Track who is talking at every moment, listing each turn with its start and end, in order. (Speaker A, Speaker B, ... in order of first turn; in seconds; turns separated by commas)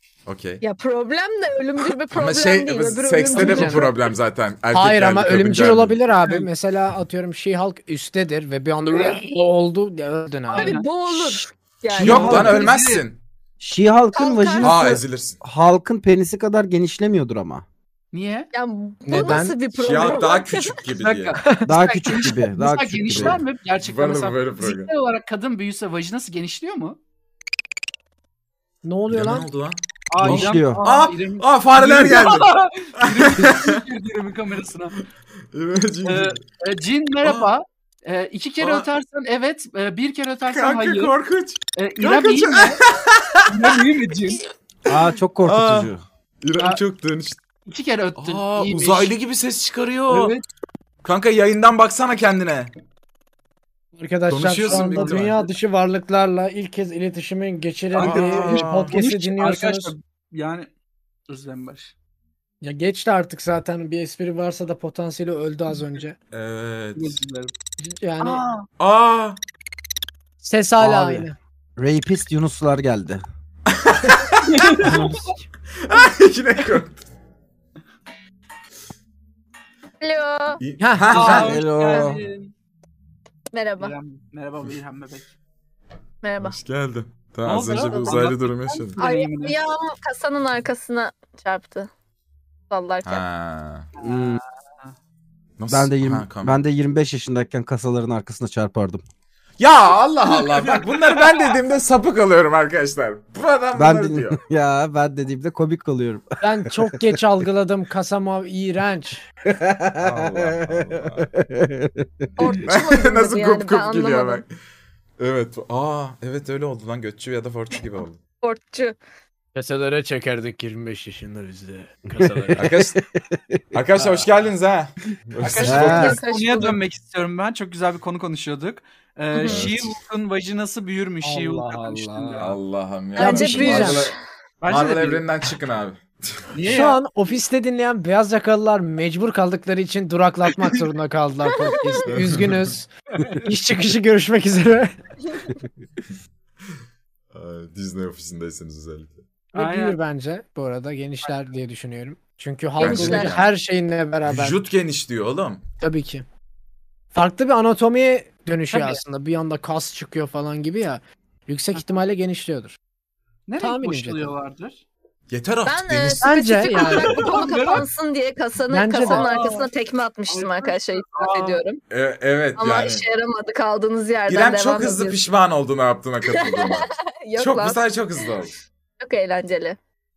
Speaker A: 0.3-0.6, Speaker B: 0.6-4.0, Speaker A: 2.1-6.0, Speaker C: 3.3-3.9, Speaker C: 4.7-11.5, Speaker D: 10.5-10.8, Speaker B: 10.5-12.5, Speaker E: 12.0-12.7, Speaker A: 12.0-13.2, Speaker D: 12.0-13.1, Speaker E: 13.6-17.6, Speaker B: 14.2-14.9, Speaker A: 14.6-15.4, Speaker D: 18.1-18.5, Speaker B: 18.5-20.8, Speaker C: 19.1-19.6, Speaker A: 19.3-21.4, Speaker D: 21.0-27.0, Speaker C: 21.3-22.2, Speaker E: 21.7-23.4, Speaker A: 23.1-24.9, Speaker C: 28.8-29.5, Speaker A: 29.1-33.8, Speaker D: 30.1-35.0, Speaker E: 30.2-30.8, Speaker A: 35.5-36.4, Speaker D: 36.0-41.1, Speaker A: 37.2-37.5, Speaker A: 38.6-38.9, Speaker A: 40.5-43.8, Speaker D: 41.8-42.8, Speaker D: 43.5-44.4, Speaker E: 44.9-46.0, Speaker A: 44.9-47.4, Speaker D: 47.7-49.1, Speaker A: 48.2-50.4, Speaker D: 50.1-50.5, Speaker A: 51.0-52.7, Speaker C: 54.0-59.9, Speaker A: 54.3-55.4, Speaker D: 54.7-55.1, Speaker D: 57.9-60.7, Speaker A: 58.0-59.0, Speaker D: 61.3-61.9, Speaker C: 62.6-66.2, Speaker A: 66.3-67.2, Speaker D: 67.0-67.5, Speaker C: 67.8-68.5, Speaker D: 68.2-68.7, Speaker A: 68.8-69.4, Speaker C: 70.4-71.4, Speaker E: 70.8-71.3, Speaker E: 71.8-73.2, Speaker A: 73.7-74.9, Speaker D: 74.4-75.3, Speaker E: 74.8-75.2, Speaker A: 75.8-77.0, Speaker B: 80.0-80.6, Speaker A: 80.6-81.7, Speaker C: 80.8-81.3, Speaker D: 81.1-82.5, Speaker E: 81.2-82.2, Speaker B: 83.5-84.0, Speaker D: 83.8-85.3, Speaker B: 86.2-86.6, Speaker A: 86.4-89.0, Speaker D: 87.5-89.6, Speaker B: 89.0-91.9, Speaker B: 92.7-93.2, Speaker A: 93.0-93.9, Speaker D: 94.0-94.9, Speaker E: 94.0-94.4, Speaker A: 95.6-96.6, Speaker E: 95.7-99.0, Speaker A: 99.6-104.4, Speaker D: 100.4-101.5, Speaker E: 103.7-107.1, Speaker C: 106.4-109.2, Speaker E: 109.5-112.3, Speaker A: 110.0-111.3, Speaker B: 112.4-114.4, Speaker A: 112.6-114.5, Speaker A: 115.2-118.2, Speaker B: 118.4-119.0, Speaker C: 119.5-122.8, Speaker E: 122.4-123.6, Speaker A: 122.6-123.0, Speaker A: 123.7-126.2, Speaker D: 125.4-132.6, Speaker E: 125.6-126.2, Speaker B: 125.9-126.8, Speaker B: 129.3-129.7, Speaker A: 129.5-129.8, Speaker C: 131.2-132.5, Speaker A: 132.4-134.1, Speaker B: 133.2-134.2, Speaker C: 133.2-134.1, Speaker D: 134.6-135.2, Speaker A: 134.7-136.4, Speaker D: 136.5-137.0, Speaker C: 136.7-142.9, Speaker A: 142.1-142.7, Speaker C: 143.4-144.9, Speaker A: 147.3-149.2, Speaker C: 149.5-154.7, Speaker D: 149.6-150.0, Speaker B: 152.8-153.4, Speaker A: 152.8-153.5, Speaker A: 154.2-155.6, Speaker C: 155.8-156.2, Speaker C: 157.1-162.8, Speaker D: 158.7-159.0, Speaker D: 163.5-164.8, Speaker C: 163.6-164.3, Speaker A: 165.3-166.3, Speaker B: 165.7-171.8, Speaker C: 166.2-167.1, Speaker D: 166.8-167.9, Speaker C: 168.7-169.4, Speaker D: 169.0-169.7, Speaker D: 170.3-171.6, Speaker A: 171.9-173.0, Speaker B: 172.6-175.2, Speaker A: 174.3-178.6, Speaker B: 176.2-178.3, Speaker B: 179.0-179.8